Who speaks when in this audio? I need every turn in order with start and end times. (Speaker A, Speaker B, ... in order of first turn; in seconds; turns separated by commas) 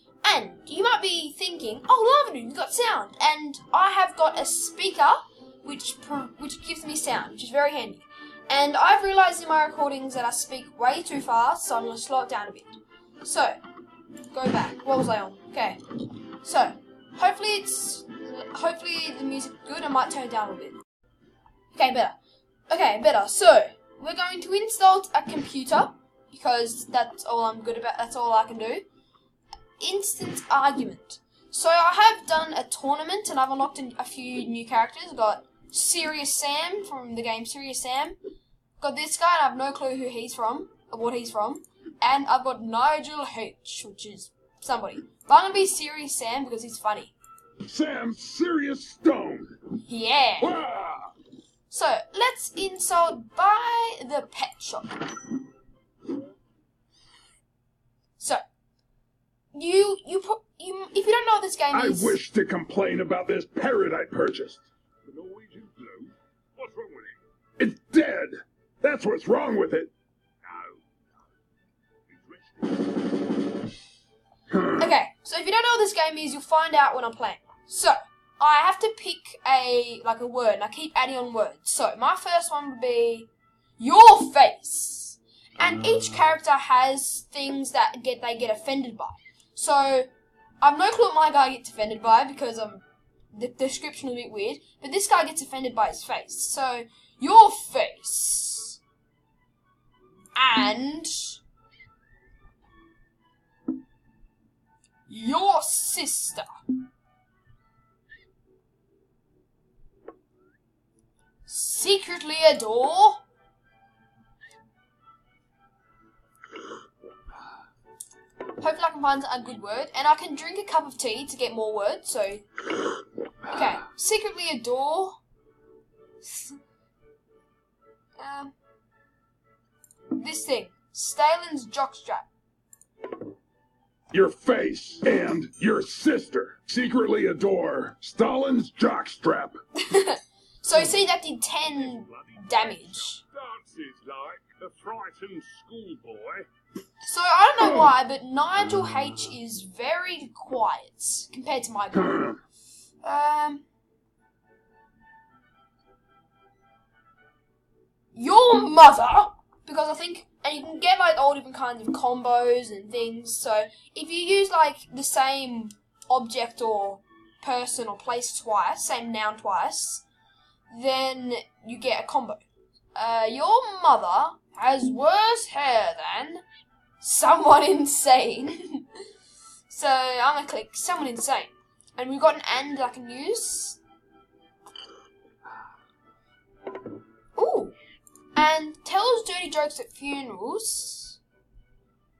Speaker A: 0.2-12.7, Speaker A: 13.2-13.6, Speaker A: 14.3-15.8, Speaker A: 16.4-20.8, Speaker A: 21.7-22.2, Speaker A: 22.7-28.9, Speaker A: 29.8-38.2, Speaker A: 38.8-47.1, Speaker B: 47.7-49.6, Speaker A: 49.8-50.6, Speaker B: 50.4-51.1, Speaker A: 51.7-55.0, Speaker A: 59.5-62.2, Speaker B: 61.7-64.7, Speaker C: 65.1-67.2, Speaker B: 67.6-69.9, Speaker C: 70.4-70.8, Speaker C: 72.1-72.8, Speaker B: 74.5-74.9, Speaker A: 74.8-90.1, Speaker A: 90.6-92.8, Speaker A: 93.3-98.8, Speaker A: 100.3-101.4, Speaker A: 105.1-106.5, Speaker A: 111.5-113.2, Speaker A: 118.6-122.5, Speaker A: 123.5-125.2, Speaker A: 126.2-126.6, Speaker A: 128.2-128.5, Speaker A: 130.1-132.3, Speaker B: 134.1-139.6, Speaker A: 139.8-143.2, Speaker C: 141.8-146.5, Speaker A: 147.0-152.3, Speaker B: 147.6-147.9, Speaker B: 152.0-152.4, Speaker A: 153.0-153.7, Speaker A: 158.2-170.0, Speaker A: 170.7-176.4, Speaker A: 177.0-178.8, Speaker A: 179.7-183.8, Speaker A: 187.3-187.7, Speaker A: 188.3-191.2